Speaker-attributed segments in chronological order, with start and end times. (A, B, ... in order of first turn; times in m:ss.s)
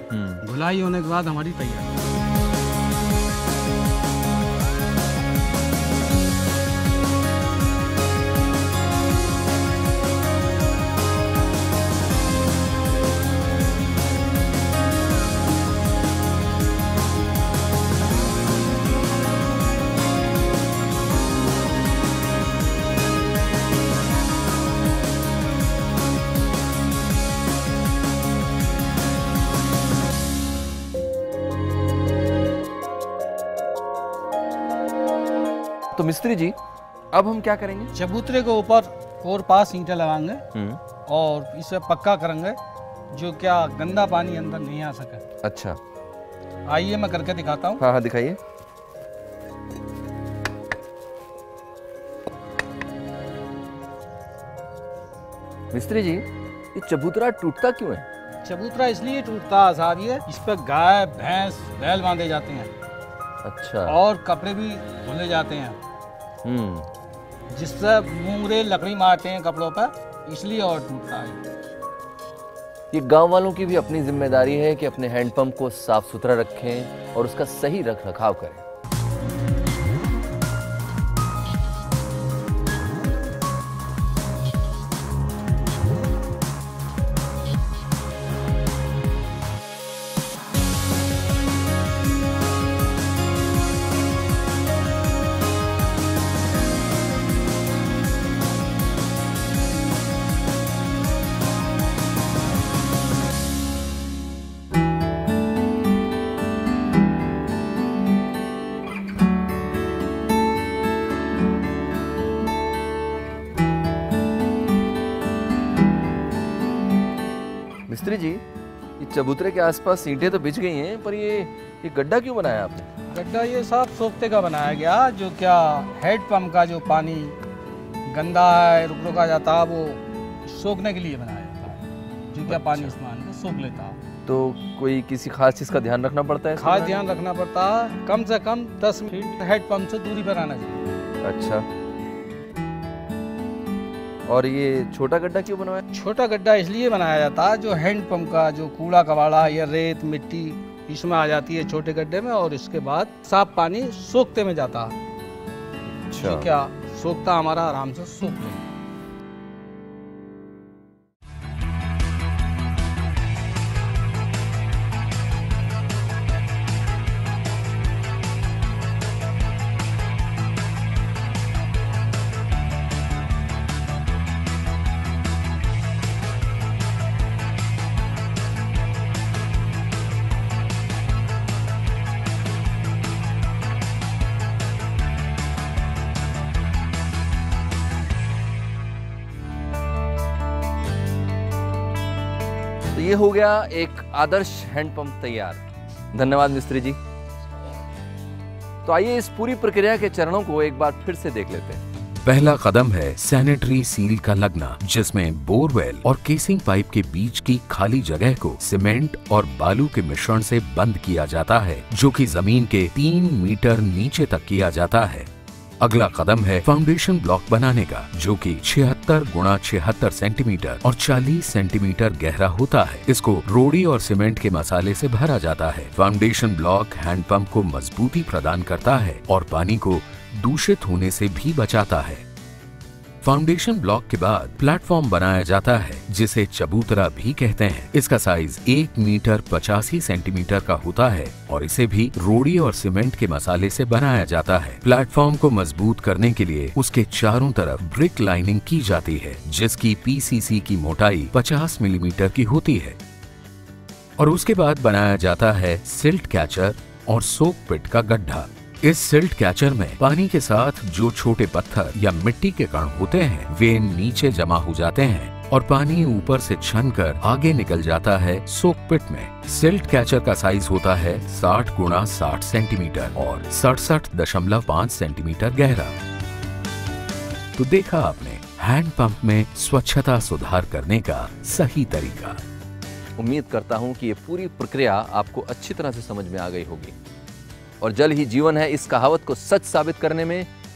0:00.1-0:00.4 A
0:00.4-0:02.0 B
0:35.9-0:36.6 A
0:37.1-0:37.9 A
0:37.9-0:40.4 B
0:40.5-0:40.8 A
0:41.1-0:42.6 B
0:43.1-0:45.2 B
0:45.4-0:45.8 A
0:46.6-0:47.8 B
0:47.8-0:48.4 A
0:55.7-0:58.0 A
0:58.4-1:02.7 B
1:03.4-1:03.9 A
1:03.9-1:05.8 B
1:06.4-1:06.9 A
1:07.5-1:11.4 B
1:12.9-1:18.6 A
1:57.9-1:58.4 A
1:59.0-2:02.9 A
2:03.1-2:07.4 B
2:08.1-2:11.8 B
2:12.3-2:14.0 B
2:12.4-2:12.9 A
2:14.2-2:17.0 A
2:16.6-2:20.8 B
2:21.2-2:21.6 A
2:24.3-2:25.8 A
2:25.9-2:35.0 B
2:36.0-2:36.5 A
2:36.2-2:38.6 B
3:12.9-3:15.6 A
3:16.1-3:17.0 A
3:18.8-3:21.8 A
3:22.2-3:52.2 C
3:53.2-4:13.0 C
4:14.2-4:36.0 C
4:37.5-4:42.4 C
4:43.2-4:47.0 A
4:47.8-4:50.5 A